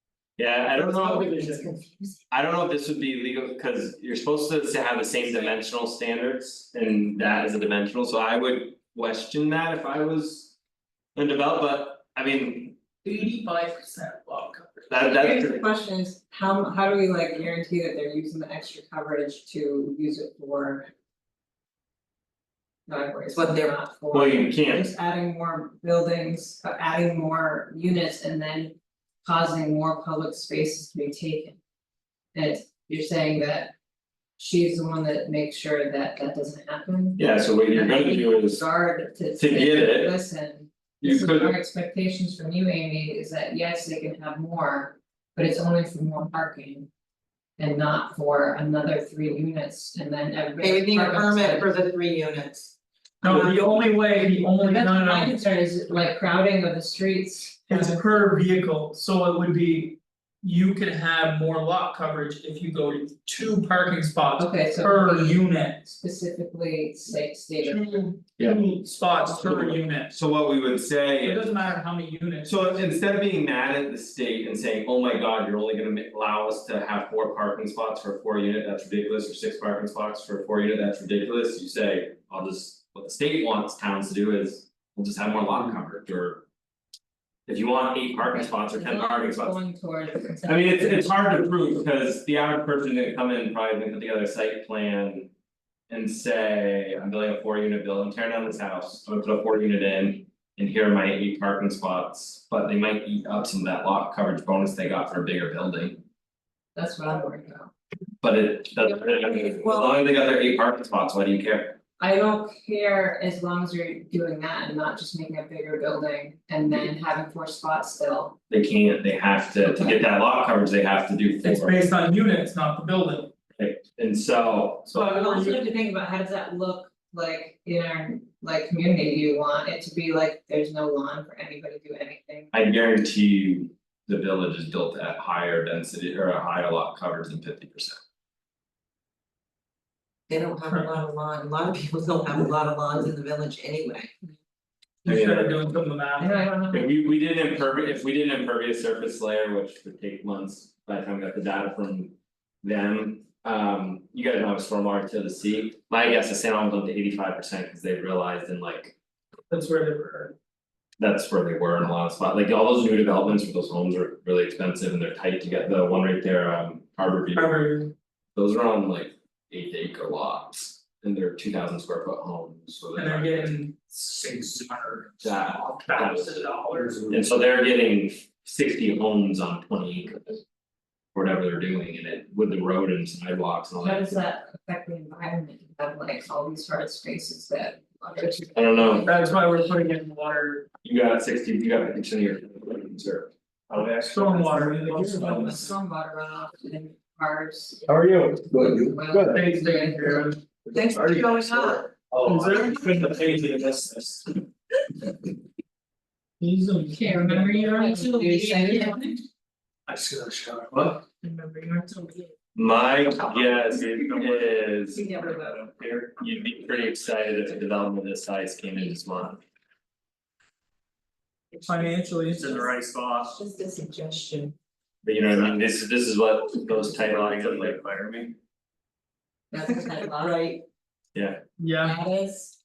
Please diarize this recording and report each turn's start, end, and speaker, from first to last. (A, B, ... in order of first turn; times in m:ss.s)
0:00.4-0:01.4 A
0:00.8-0:01.7 B
0:01.5-0:02.1 C
0:02.3-0:10.6 A
0:11.2-0:12.8 A
0:13.0-0:14.9 B
0:14.9-0:15.6 A
0:15.1-0:20.9 D
0:22.9-0:31.6 D
0:23.3-0:23.7 C
0:24.1-0:24.9 A
0:32.3-0:33.7 D
0:34.4-0:46.9 D
0:37.2-0:38.6 A
0:39.4-0:40.2 A
0:41.0-0:41.6 A
0:47.6-0:51.7 D
0:50.6-0:52.8 C
0:53.2-0:55.4 B
0:53.2-0:53.5 D
0:53.3-0:53.6 C
0:54.6-0:58.0 D
0:57.7-1:05.8 B
1:04.4-1:08.2 D
1:07.6-1:10.1 B
1:09.1-1:09.8 D
1:10.1-1:11.6 A
1:11.2-1:12.9 B
1:12.5-1:26.4 A
1:27.5-1:29.6 A
1:28.2-1:31.4 D
1:30.5-1:35.3 A
1:35.9-1:46.0 A
1:46.8-1:47.7 D
1:48.2-1:51.8 A
1:48.9-1:50.0 D
1:52.0-1:58.4 D
1:58.5-2:01.8 A
2:01.4-2:03.3 B
2:03.6-2:05.4 A
2:04.9-2:05.6 B
2:04.9-2:12.5 D
2:12.5-2:18.0 A
2:20.3-2:24.3 C
2:20.6-2:21.0 B
2:25.0-2:26.5 B
2:25.1-2:25.6 A
2:26.2-2:26.9 D
2:26.7-2:39.0 A
2:39.5-2:40.4 B
2:41.0-2:47.6 A
2:47.3-2:47.9 B
2:48.4-2:53.5 A
2:53.0-2:57.0 B
2:55.2-2:56.4 A
2:57.1-3:00.4 A
3:01.2-3:04.2 A
3:03.8-3:09.4 D
3:08.5-3:09.1 A
3:09.0-3:10.7 B
3:10.8-3:15.6 A
3:14.0-3:15.7 B
3:15.0-3:17.8 D
3:18.7-3:20.4 D
3:19.3-3:20.4 B
3:20.7-3:21.9 C
3:20.9-3:21.2 E
3:22.2-3:24.2 E
3:22.2-3:23.8 B
3:26.4-3:28.2 B
3:26.9-3:29.2 D
3:28.0-3:28.9 C
3:29.9-3:31.0 E
3:31.2-3:32.3 B
3:32.6-3:35.0 A
3:33.3-3:34.6 E
3:34.9-3:35.7 D
3:35.2-3:36.1 E
3:36.2-3:39.4 A
3:41.6-3:42.7 B
3:41.8-3:44.6 D
3:42.4-3:43.3 E
3:45.0-3:47.8 A
3:46.9-3:48.3 E
3:49.5-3:50.4 D
3:49.7-3:50.6 C
3:51.6-3:52.0 B
3:51.8-3:52.6 D